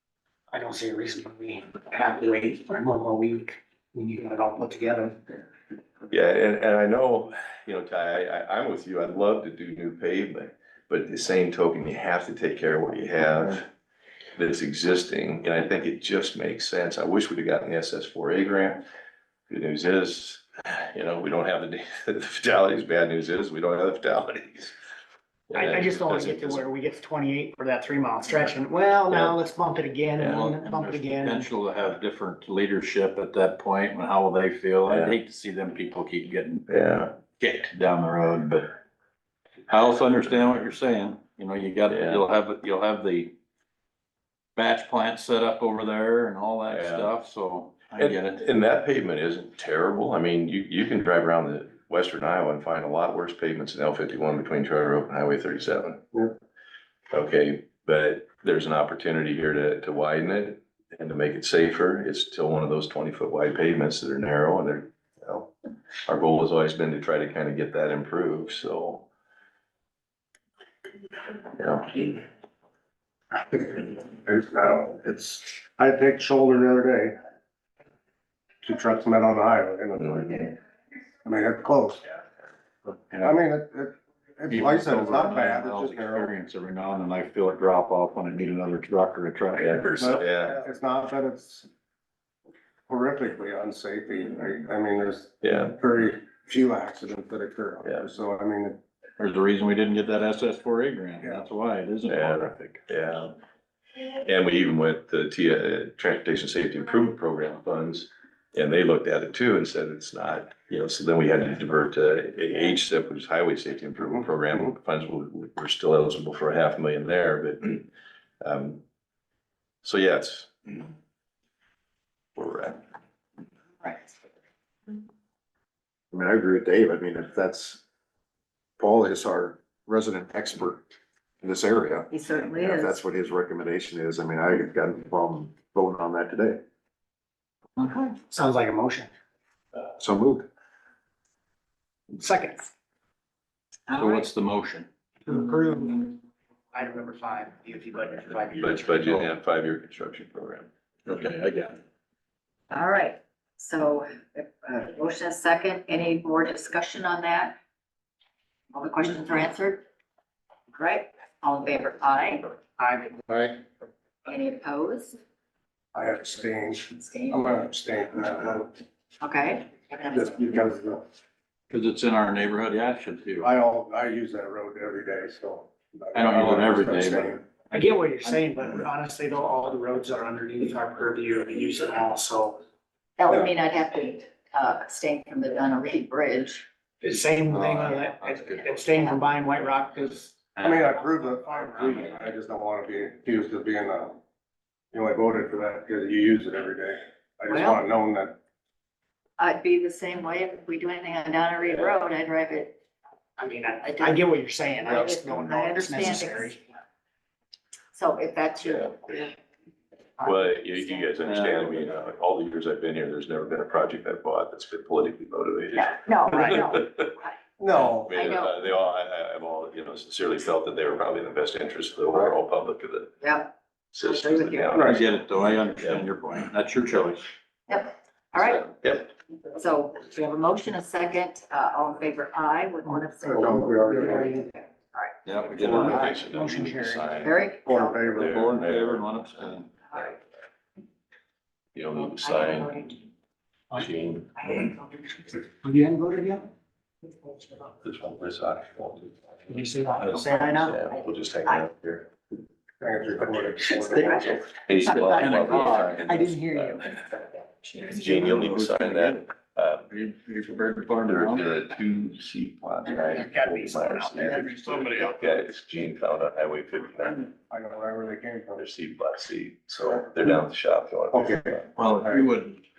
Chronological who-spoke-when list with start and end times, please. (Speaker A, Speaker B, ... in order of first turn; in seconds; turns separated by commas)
Speaker A: 0.5-5.4, Speaker B: 6.1-13.7, Speaker B: 14.4-18.8, Speaker B: 19.5-24.7, Speaker B: 25.5-26.7, Speaker A: 25.5-31.5, Speaker B: 29.1-29.4, Speaker B: 30.2-30.4, Speaker C: 30.2-36.6, Speaker B: 34.9-35.2, Speaker B: 36.7-37.1, Speaker C: 37.4-38.7, Speaker C: 39.7-43.3, Speaker B: 41.9-42.2, Speaker C: 44.5-48.4, Speaker B: 46.7-47.1, Speaker B: 48.0-56.0, Speaker B: 57.1-65.5, Speaker B: 66.1-69.0, Speaker B: 71.6-72.2, Speaker D: 73.5-77.2, Speaker D: 78.6-80.6, Speaker D: 81.2-82.0, Speaker C: 83.1-83.4, Speaker D: 83.2-86.3, Speaker C: 84.5-90.2, Speaker B: 89.6-90.6, Speaker D: 89.9-91.7, Speaker D: 92.9-98.8, Speaker B: 95.4-95.8, Speaker C: 99.2-102.8, Speaker B: 102.0-103.3, Speaker B: 104.2-117.9, Speaker B: 118.4-118.8, Speaker B: 119.8-120.9, Speaker B: 122.3-122.8, Speaker E: 123.8-124.1, Speaker F: 126.1-127.8, Speaker F: 128.8-130.8, Speaker F: 131.4-136.6, Speaker E: 132.1-133.0, Speaker A: 137.8-139.1, Speaker F: 140.0-140.5, Speaker A: 142.1-142.7, Speaker E: 143.9-144.2, Speaker C: 143.9-144.9, Speaker A: 145.3-146.2, Speaker A: 146.7-149.0, Speaker B: 148.5-150.7, Speaker C: 149.0-149.3, Speaker C: 151.1-151.8, Speaker E: 152.7-157.6, Speaker E: 158.7-159.8, Speaker E: 160.7-162.6, Speaker A: 162.8-163.5, Speaker E: 164.2-165.2, Speaker D: 165.9-168.7, Speaker E: 166.9-167.6, Speaker E: 169.2-169.9, Speaker D: 170.0-171.0, Speaker C: 171.7-173.5, Speaker D: 173.4-177.5, Speaker C: 176.1-177.8, Speaker A: 177.7-182.6, Speaker E: 183.2-186.6, Speaker A: 187.0-190.5, Speaker C: 187.4-188.8, Speaker E: 188.8-189.3, Speaker C: 190.5-191.0, Speaker D: 190.6-194.2, Speaker A: 191.1-191.9, Speaker C: 191.8-192.2, Speaker D: 194.9-198.3, Speaker E: 197.5-197.8, Speaker E: 199.4-202.8, Speaker A: 203.4-206.6, Speaker E: 204.8-206.6, Speaker E: 207.9-209.3, Speaker B: 208.6-209.1, Speaker B: 210.2-217.1, Speaker C: 211.2-211.9, Speaker E: 215.7-217.4, Speaker D: 217.6-218.1, Speaker B: 217.9-223.1, Speaker E: 218.0-218.5, Speaker E: 223.2-225.0, Speaker B: 223.9-225.0, Speaker C: 224.7-227.2, Speaker B: 225.8-226.1, Speaker E: 227.7-228.8, Speaker B: 228.8-229.1, Speaker E: 229.5-235.1, Speaker D: 233.2-234.4, Speaker A: 233.5-234.5, Speaker C: 235.2-236.1, Speaker B: 235.5-237.3, Speaker A: 235.7-237.1, Speaker E: 237.2-238.3, Speaker D: 237.6-238.5, Speaker B: 238.2-240.1, Speaker C: 238.2-239.7, Speaker B: 241.7-242.9, Speaker E: 242.0-242.9, Speaker B: 243.7-244.8, Speaker A: 245.6-246.5, Speaker B: 247.8-249.1, Speaker A: 249.5-250.8, Speaker B: 249.9-252.1, Speaker E: 250.9-251.6, Speaker D: 252.8-254.4, Speaker B: 253.9-256.9, Speaker C: 255.1-256.3, Speaker A: 255.1-257.0, Speaker B: 257.8-259.9, Speaker A: 257.8-258.2, Speaker C: 258.2-259.2, Speaker C: 259.9-261.5, Speaker B: 261.0-267.3, Speaker A: 263.0-264.8, Speaker D: 267.5-268.6, Speaker B: 268.6-271.7, Speaker D: 271.1-272.3, Speaker C: 271.8-272.6